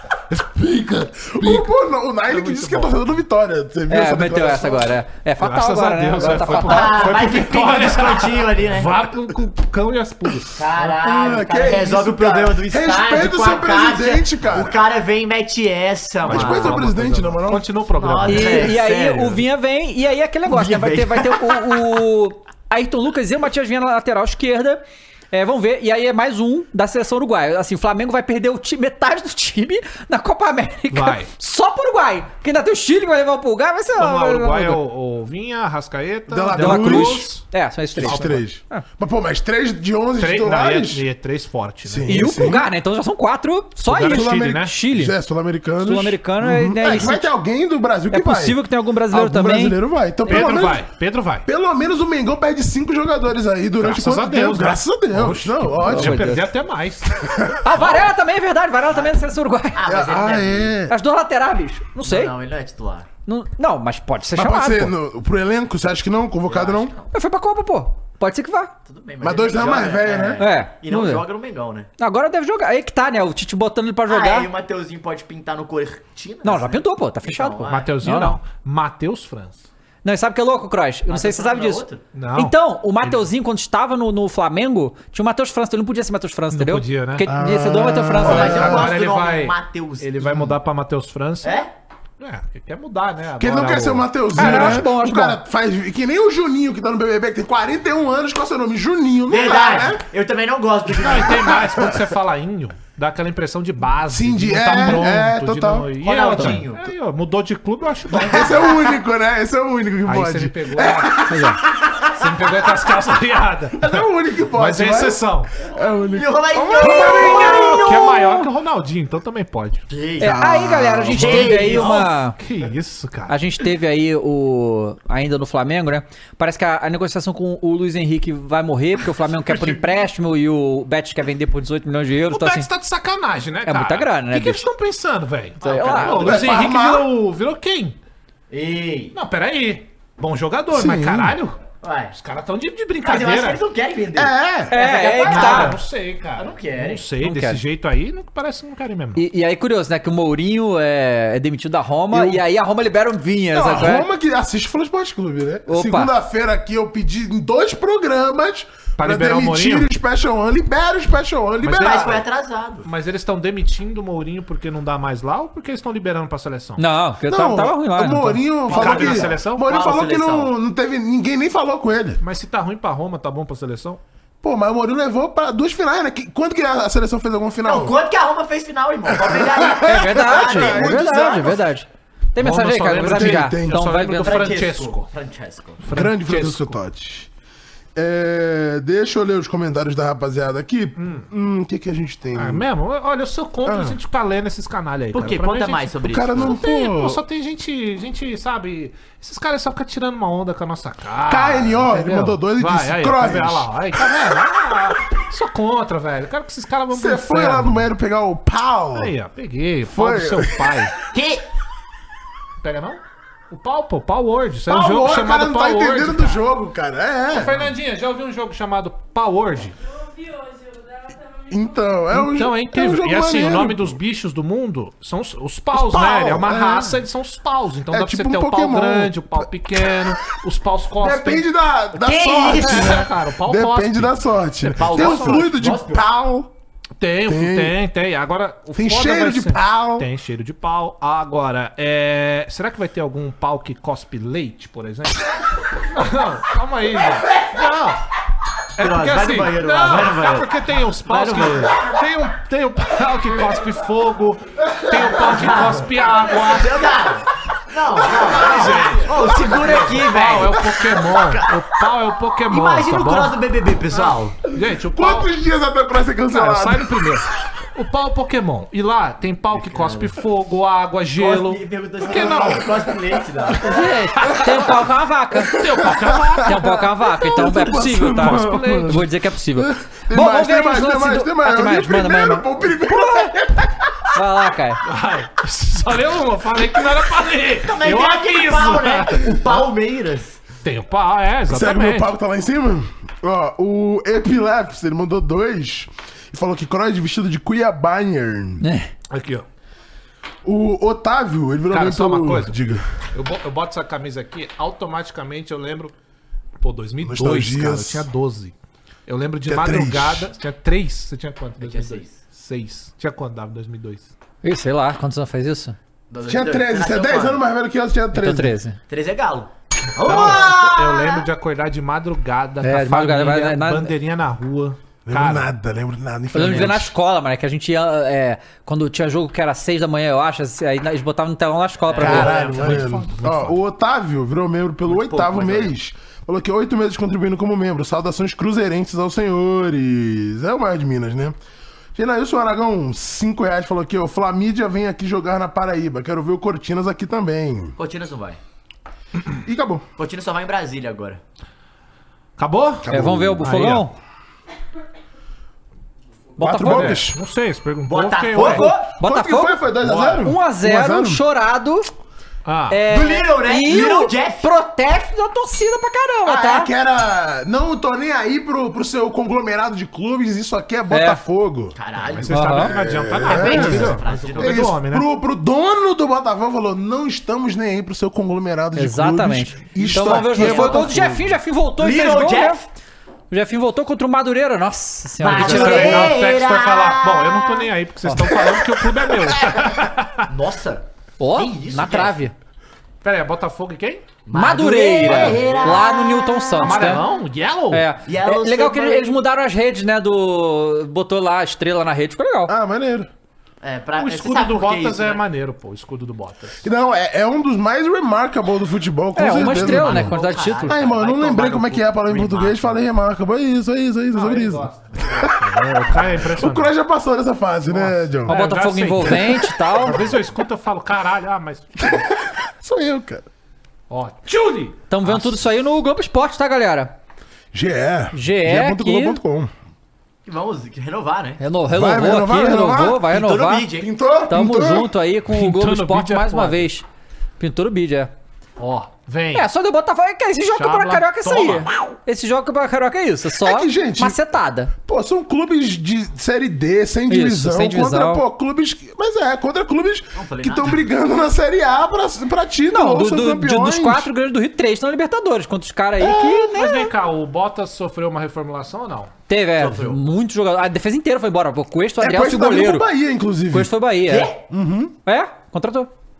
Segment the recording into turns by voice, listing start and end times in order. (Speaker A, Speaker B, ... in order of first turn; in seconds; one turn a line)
Speaker A: 0.3-4.9
Speaker B: 2.3-3.0
Speaker C: 3.9-7.2
Speaker B: 5.4-10.6
Speaker D: 6.6-8.9
Speaker D: 10.6-16.8
Speaker A: 11.0-14.8
Speaker B: 16.2-18.8
Speaker A: 16.2-17.7
Speaker D: 17.9-19.4
Speaker C: 18.2-34.8
Speaker D: 20.5-21.9
Speaker B: 30.9-31.3
Speaker B: 34.0-37.4
Speaker A: 36.3-37.4
Speaker C: 36.5-38.8
Speaker A: 37.9-41.0
Speaker B: 38.0-38.4
Speaker B: 40.2-42.5
Speaker A: 41.8-42.7
Speaker C: 42.1-45.1
Speaker B: 43.8-44.7
Speaker A: 44.1-50.9
Speaker C: 45.8-47.3
Speaker C: 48.1-49.8
Speaker B: 50.2-51.5
Speaker A: 51.4-56.4
Speaker B: 53.8-57.2
Speaker C: 55.8-56.5
Speaker A: 57.1-57.5
Speaker C: 57.6-59.8
Speaker B: 57.7-58.0
Speaker D: 59.7-60.7
Speaker A: 59.9-60.9
Speaker C: 60.9-62.3
Speaker D: 62.0-63.1
Speaker C: 63.2-64.9
Speaker A: 64.3-66.9
Speaker D: 66.5-67.0
Speaker C: 67.1-68.7
Speaker D: 68.8-71.9
Speaker A: 69.2-70.4
Speaker C: 70.4-71.2
Speaker C: 72.0-74.5
Speaker D: 74.1-78.0
Speaker C: 76.4-78.4
Speaker B: 77.7-79.7
Speaker C: 80.0-81.8
Speaker D: 81.1-82.0
Speaker B: 82.1-83.2
Speaker C: 82.3-88.7
Speaker B: 86.5-87.3
Speaker A: 87.2-89.0
Speaker D: 88.2-90.4
Speaker B: 88.2-91.6
Speaker D: 91.4-91.7
Speaker B: 92.2-94.8
Speaker A: 93.4-100.0
Speaker C: 94.3-95.4
Speaker D: 99.3-101.8
Speaker B: 100.9-108.9
Speaker A: 101.3-102.1
Speaker A: 104.1-106.6
Speaker D: 106.0-106.8
Speaker A: 108.1-112.8
Speaker B: 110.0-111.2
Speaker C: 111.3-111.6
Speaker B: 112.1-115.5
Speaker A: 113.7-118.1
Speaker D: 116.1-117.5
Speaker B: 116.7-119.9
Speaker C: 116.8-118.5
Speaker D: 119.9-120.4
Speaker A: 120.2-121.8
Speaker C: 120.2-122.4
Speaker D: 121.1-122.1
Speaker B: 121.7-123.3
Speaker C: 123.3-132.7
Speaker D: 129.4-129.8
Speaker B: 132.3-138.0
Speaker C: 133.6-134.7
Speaker D: 135.6-136.7
Speaker C: 135.6-136.3
Speaker A: 136.2-137.1
Speaker D: 138.5-139.1
Speaker B: 139.1-141.6
Speaker A: 140.7-141.4
Speaker D: 141.8-142.1
Speaker B: 142.1-143.6
Speaker D: 143.0-145.8
Speaker A: 144.1-144.7
Speaker C: 144.7-145.7
Speaker B: 145.2-149.2
Speaker D: 146.4-147.0
Speaker C: 147.2-147.6
Speaker C: 149.1-154.1
Speaker A: 152.1-152.4
Speaker A: 153.5-162.2
Speaker C: 155.7-156.1
Speaker B: 159.0-159.9
Speaker B: 161.6-162.2
Speaker D: 161.7-162.9
Speaker B: 162.8-166.8
Speaker C: 166.8-168.4
Speaker A: 167.2-172.2
Speaker D: 168.7-170.5
Speaker B: 168.7-169.7
Speaker B: 172.2-174.0
Speaker A: 174.4-178.0
Speaker D: 177.6-181.0
Speaker A: 179.1-181.7
Speaker C: 179.8-184.5
Speaker B: 182.4-185.1
Speaker A: 183.1-183.9
Speaker D: 184.2-185.8
Speaker B: 185.8-186.8
Speaker A: 185.9-187.3
Speaker A: 187.9-192.7
Speaker B: 191.0-191.3
Speaker B: 192.4-207.9
Speaker A: 193.6-194.0
Speaker D: 195.1-196.6
Speaker A: 196.0-197.2
Speaker A: 201.2-204.0
Speaker A: 206.9-209.1
Speaker B: 208.9-210.9
Speaker A: 209.8-210.9
Speaker D: 211.1-211.4
Speaker B: 212.6-216.4
Speaker A: 214.7-217.7
Speaker B: 217.3-219.7
Speaker E: 219.8-222.0
Speaker A: 221.5-224.0
Speaker B: 222.1-231.4
Speaker A: 225.7-227.0
Speaker A: 227.9-230.1
Speaker A: 231.0-236.5
Speaker D: 231.9-233.1
Speaker B: 232.4-235.4
Speaker D: 234.7-236.0
Speaker B: 237.0-245.3
Speaker A: 237.2-237.8
Speaker A: 238.7-240.1
Speaker B: 245.9-248.0
Speaker B: 248.8-257.2
Speaker D: 248.8-251.8
Speaker D: 255.0-255.9
Speaker D: 256.4-261.5
Speaker B: 258.0-263.4
Speaker D: 262.5-264.4
Speaker B: 263.9-265.3
Speaker A: 264.8-267.2
Speaker B: 266.3-272.8
Speaker D: 269.5-270.1
Speaker D: 271.2-273.6
Speaker A: 272.2-272.5
Speaker B: 273.6-274.8
Speaker C: 273.6-275.6
Speaker B: 275.5-276.8
Speaker A: 275.6-284.2
Speaker C: 276.4-283.3
Speaker B: 277.6-279.0
Speaker C: 284.1-284.8
Speaker B: 284.8-289.5
Speaker D: 287.6-290.4
Speaker B: 290.6-292.1
Speaker A: 291.5-298.6
Speaker C: 298.6-298.9
Speaker B: 299.1-299.4
Speaker A: 300.4-302.9
Speaker B: 301.7-302.6
Speaker B: 303.1-305.9
Speaker B: 306.6-308.5
Speaker A: 307.0-308.1
Speaker B: 309.1-314.1
Speaker A: 309.4-310.3
Speaker D: 311.6-312.2
Speaker C: 314.4-315.8
Speaker D: 316.1-317.4
Speaker A: 316.2-318.6
Speaker C: 318.1-318.8
Speaker D: 318.9-321.2
Speaker B: 320.0-325.5
Speaker A: 320.0-320.4
Speaker C: 322.6-323.9
Speaker A: 325.1-326.9
Speaker C: 326.3-332.4
Speaker D: 331.9-332.8
Speaker A: 332.0-341.4
Speaker B: 332.0-333.6
Speaker D: 334.9-335.7
Speaker A: 341.9-347.7
Speaker D: 347.8-348.4
Speaker A: 349.4-349.8
Speaker D: 350.0-351.2
Speaker B: 352.4-353.9
Speaker A: 352.8-353.4
Speaker C: 352.9-353.9
Speaker C: 356.4-357.0
Speaker A: 356.4-357.2
Speaker B: 356.6-358.7
Speaker D: 357.9-358.9
Speaker A: 358.8-361.2
Speaker C: 358.9-359.6
Speaker B: 359.8-360.2
Speaker C: 360.2-361.9
Speaker B: 362.4-362.8
Speaker C: 362.7-366.7
Speaker D: 362.9-364.5
Speaker A: 366.2-381.3
Speaker C: 370.9-371.2
Speaker D: 371.7-374.7
Speaker B: 372.1-375.1
Speaker C: 372.3-372.7
Speaker C: 378.8-382.6
Speaker D: 380.3-380.9
Speaker D: 381.8-382.7
Speaker C: 383.3-386.1
Speaker D: 385.2-387.7
Speaker B: 385.2-390.3
Speaker D: 390.3-392.2
Speaker C: 391.2-392.3
Speaker B: 393.0-394.1
Speaker D: 394.2-397.1
Speaker C: 394.3-397.0
Speaker B: 395.1-395.4
Speaker B: 396.6-397.9
Speaker C: 397.7-402.5
Speaker D: 398.1-399.1
Speaker A: 402.4-403.1
Speaker D: 403.6-405.2
Speaker B: 404.0-406.6
Speaker A: 406.6-418.4
Speaker C: 409.1-410.8
Speaker D: 409.5-412.8
Speaker B: 414.1-416.7
Speaker B: 417.7-422.0
Speaker C: 418.3-420.1
Speaker A: 419.0-420.1
Speaker A: 421.8-423.2
Speaker B: 423.9-425.4
Speaker C: 424.9-426.9
Speaker A: 427.5-429.5
Speaker C: 428.1-429.2
Speaker D: 430.2-431.4
Speaker C: 431.4-433.7
Speaker A: 431.7-433.1
Speaker D: 433.1-433.9
Speaker A: 433.7-434.9
Speaker C: 434.3-436.9
Speaker B: 435.3-436.7
Speaker C: 437.4-438.1
Speaker B: 438.6-439.5
Speaker C: 439.3-444.7
Speaker B: 440.5-441.9
Speaker A: 443.4-444.2
Speaker A: 444.8-454.1
Speaker C: 447.1-448.2
Speaker D: 450.1-450.9
Speaker C: 452.7-456.9
Speaker A: 456.0-456.5
Speaker B: 456.4-459.1
Speaker C: 459.3-462.9
Speaker D: 459.6-460.0
Speaker A: 462.0-463.7
Speaker C: 463.5-464.3
Speaker D: 464.1-464.4
Speaker A: 464.5-464.9
Speaker C: 465.1-465.9